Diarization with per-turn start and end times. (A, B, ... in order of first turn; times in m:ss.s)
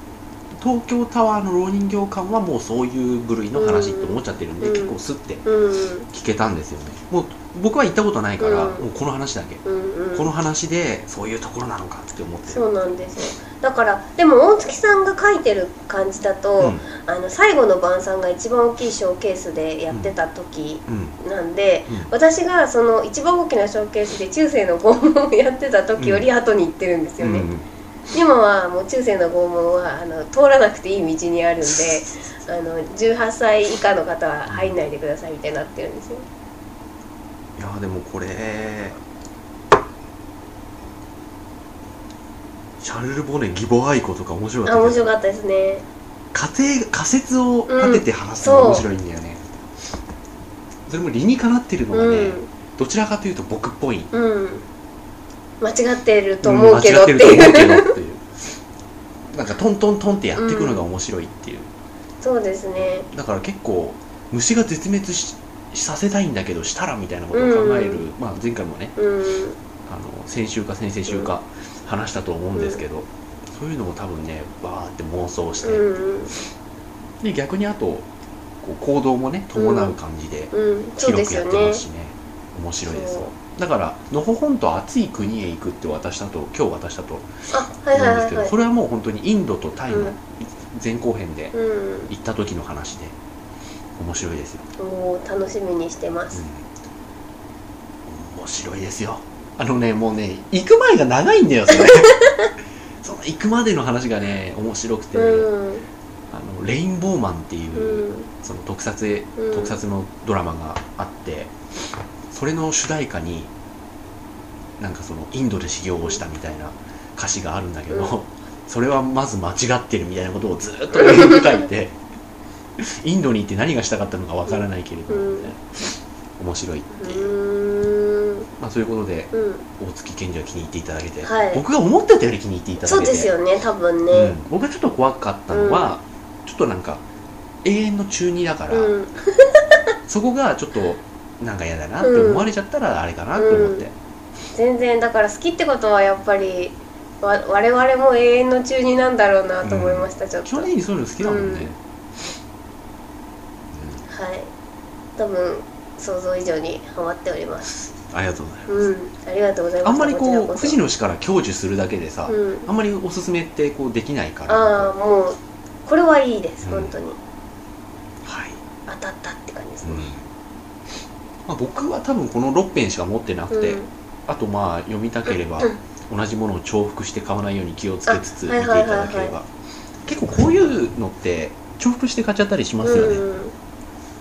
0:00.6-0:05.4 A
0:03.5-0:06.1 B
0:06.1-0:09.6 A
0:08.4-0:08.8 B
0:09.6-0:10.3 B
0:10.1-0:12.6 A
0:12.5-0:27.5 B
0:16.6-0:16.9 A
0:20.9-0:21.2 A
0:26.0-0:26.3 A
0:27.2-0:27.7 A
0:28.1-0:36.3 B
0:34.5-0:34.8 A
0:37.6-0:39.0 A
0:42.8-0:45.1 A
0:44.6-0:45.8 B
0:46.3-0:49.4 A
0:47.7-0:48.8 B
0:50.9-0:54.1 A
0:51.9-0:52.5 B
0:54.1-0:54.7 B
0:55.6-0:58.0 B
0:56.4-0:58.3 A
0:59.3-1:01.7 A
1:00.4-1:00.8 B
1:02.2-1:03.1 B
1:02.8-1:09.0 A
1:07.3-1:08.0 B
1:09.0-1:09.6 B
1:09.8-1:15.9 A
1:12.5-1:12.8 B
1:15.6-1:16.3 B
1:17.2-1:18.1 A
1:18.6-1:27.3 A
1:19.6-1:20.0 B
1:20.5-1:21.8 B
1:22.9-1:23.3 B
1:27.5-1:28.6 B
1:27.9-1:31.6 A
1:29.9-1:30.2 B
1:31.5-1:32.1 B
1:32.1-1:33.2 A
1:34.0-1:34.7 A
1:34.8-1:36.4 B
1:36.3-1:36.7 A
1:38.1-1:42.3 A
1:42.2-1:42.5 B
1:43.0-1:45.5 A
1:45.2-1:45.8 B
1:46.3-1:51.5 A
1:47.8-1:48.3 B
1:49.4-1:49.8 B
1:52.3-1:53.5 A
1:54.8-2:02.0 A
2:01.0-2:01.4 B
2:02.8-2:07.3 A
2:05.1-2:05.5 B
2:06.9-2:08.5 B
2:08.6-2:13.3 A
2:09.3-2:09.7 B
2:11.2-2:11.6 B
2:12.8-2:14.4 B
2:14.1-2:17.0 A
2:15.5-2:16.0 B
2:17.6-2:18.9 A
2:18.7-2:19.8 B
2:20.1-2:23.9 A
2:22.0-2:22.5 B
2:23.4-2:23.9 B
2:24.5-2:31.7 B
2:29.6-2:31.8 A
2:33.7-2:34.0 A
2:34.1-2:34.5 B
2:35.2-2:37.7 B
2:38.0-2:38.9 A
2:38.7-2:40.8 B
2:39.8-2:44.9 A
2:42.3-2:42.7 B
2:44.5-2:47.2 B
2:46.6-2:47.0 A
2:48.2-2:48.6 A
2:48.9-2:50.1 B
2:49.8-2:50.3 A
2:51.5-2:59.5 A
2:53.5-2:53.9 B
2:58.1-2:59.4 B
3:00.0-3:03.2 A
3:02.8-3:03.5 B